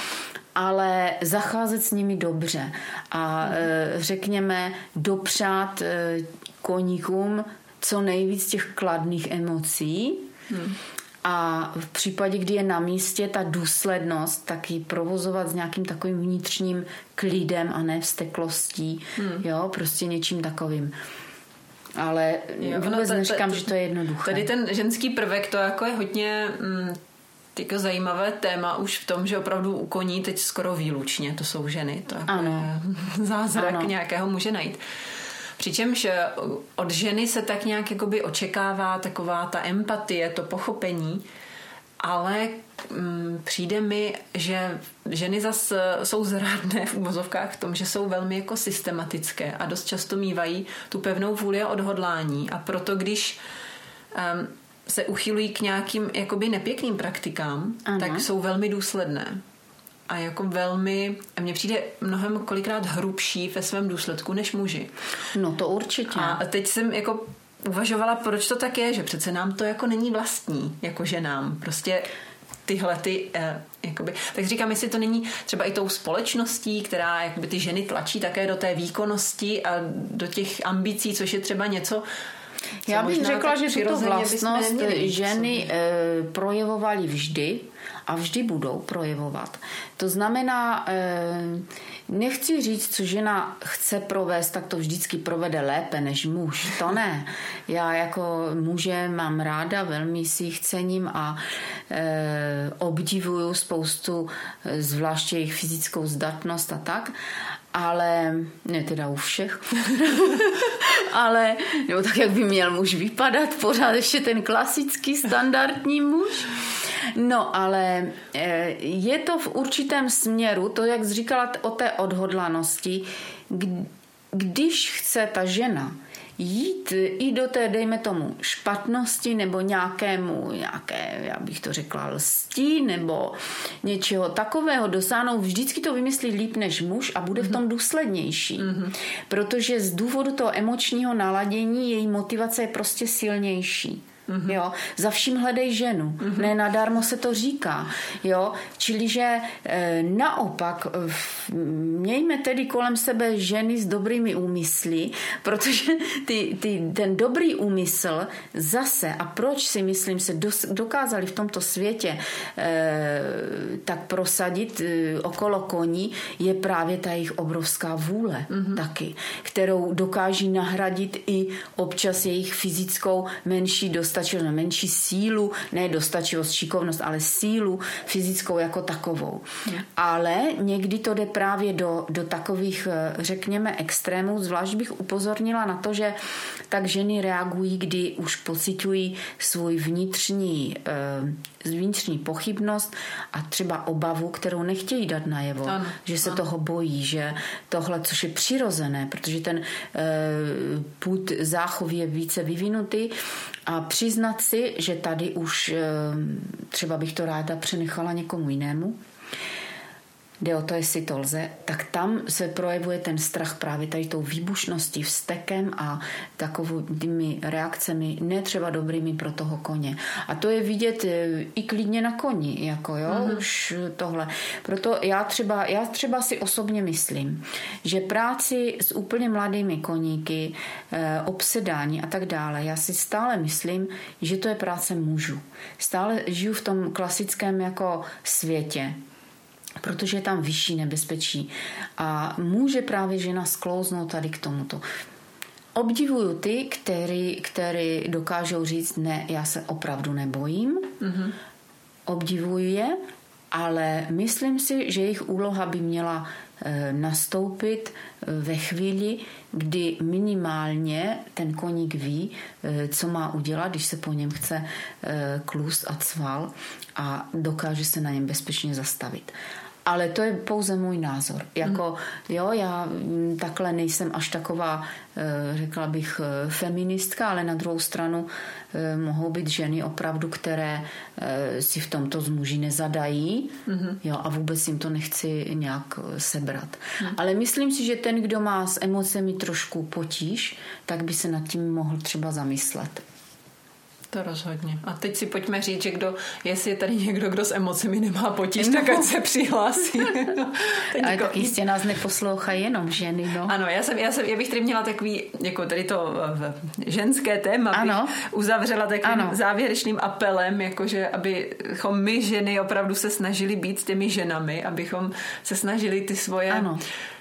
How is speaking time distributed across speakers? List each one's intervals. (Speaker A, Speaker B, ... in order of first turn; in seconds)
Speaker A: 0.5-10.3, 11.2-20.9, 21.9-24.5, 32.3-32.7, 33.5-33.9, 57.9-58.2, 65.3-66.4, 82.8-107.1, 107.7-116.6, 117.1-186.2, 186.7-203.1, 203.7-209.0, 210.4-239.0, 239.8-244.8, 245.8-251.0, 252.1-253.0, 253.5-293.0, 298.6-299.1, 300.9-303.5, 307.7-308.1, 309.0-309.4, 316.5-316.8
Speaker B: 10.5-10.8, 19.2-19.4, 22.6-23.7, 24.2-27.0, 27.5-34.8, 35.6-41.2, 42.0-53.4, 54.1-59.4, 60.1-64.9, 66.1-72.1, 72.7-82.0, 82.9-85.6, 138.6-138.9, 144.3-144.5, 146.2-146.5, 168.5-168.8, 195.7-196.4, 223.1-223.4, 251.0-251.3, 283.7-284.0, 294.1-301.6, 303.4-316.7